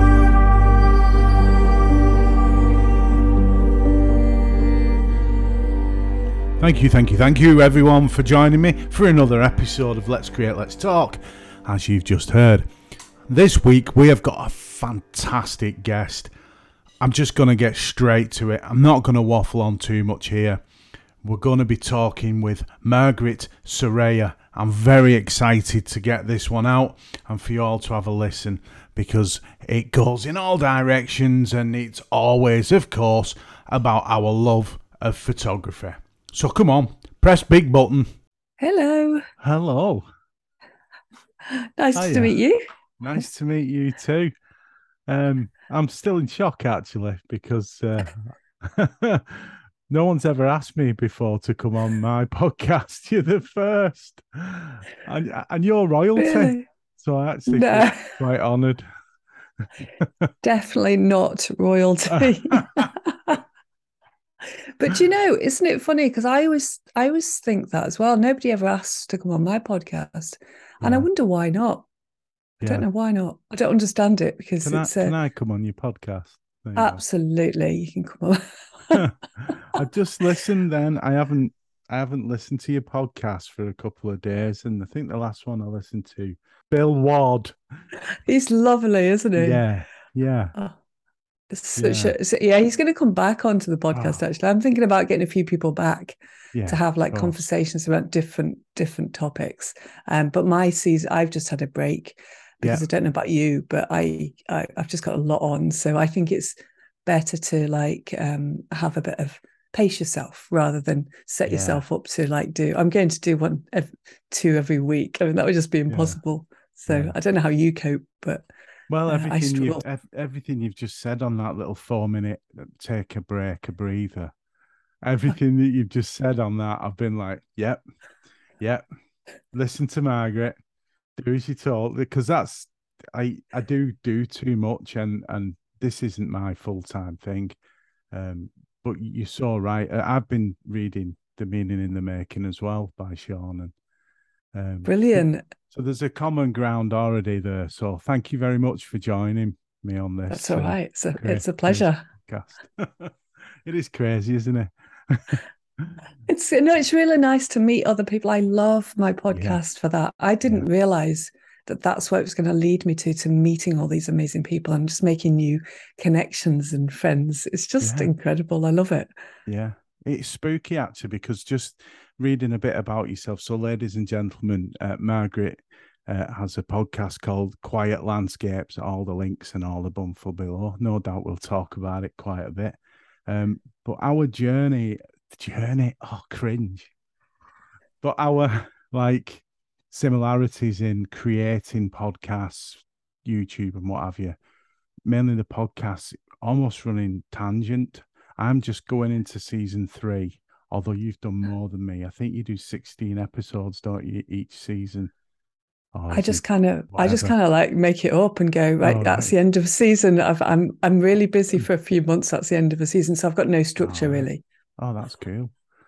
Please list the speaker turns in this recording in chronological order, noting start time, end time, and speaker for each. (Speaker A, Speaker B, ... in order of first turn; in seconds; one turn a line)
Speaker A: 6.6-12.7
Speaker A: 13.2-16.3
Speaker A: 17.0-20.6
Speaker A: 21.2-38.1
Speaker B: 38.6-39.3
Speaker A: 39.4-40.0
Speaker B: 41.5-42.6
Speaker A: 42.0-42.3
Speaker A: 43.0-44.3
Speaker A: 45.1-58.8
Speaker B: 56.1-56.6
Speaker B: 57.5-58.2
Speaker A: 60.0-60.3
Speaker B: 60.4-63.4
Speaker A: 62.2-62.9
Speaker B: 64.8-71.9
Speaker A: 70.8-71.1
Speaker A: 72.6-72.8
Speaker B: 72.6-75.2
Speaker A: 74.6-77.0
Speaker B: 76.8-79.0
Speaker A: 78.9-87.5
Speaker B: 88.2-89.6
Speaker A: 89.4-90.5
Speaker B: 91.5-118.5
Speaker A: 91.8-92.1
Speaker A: 93.9-94.2
Speaker A: 96.5-97.3
Speaker A: 111.5-111.8
Speaker A: 115.9-116.2
Speaker A: 116.9-117.1
Speaker A: 118.9-124.3
Speaker B: 119.1-119.8
Speaker A: 125.0-127.8
Speaker A: 129.5-130.6
Speaker A: 131.2-137.6
Speaker A: 138.1-143.7
Speaker A: 144.5-155.9
Speaker B: 144.8-145.4
Speaker B: 150.3-152.1
Speaker B: 156.3-169.1
Speaker A: 159.3-159.6
Speaker A: 167.8-168.1
Speaker A: 169.5-186.9
Speaker A: 188.0-194.4
Speaker A: 195.1-205.1
Speaker A: 205.9-207.3
Speaker B: 206.1-214.4
Speaker A: 208.8-209.3
Speaker A: 213.8-214.3
Speaker A: 214.8-215.5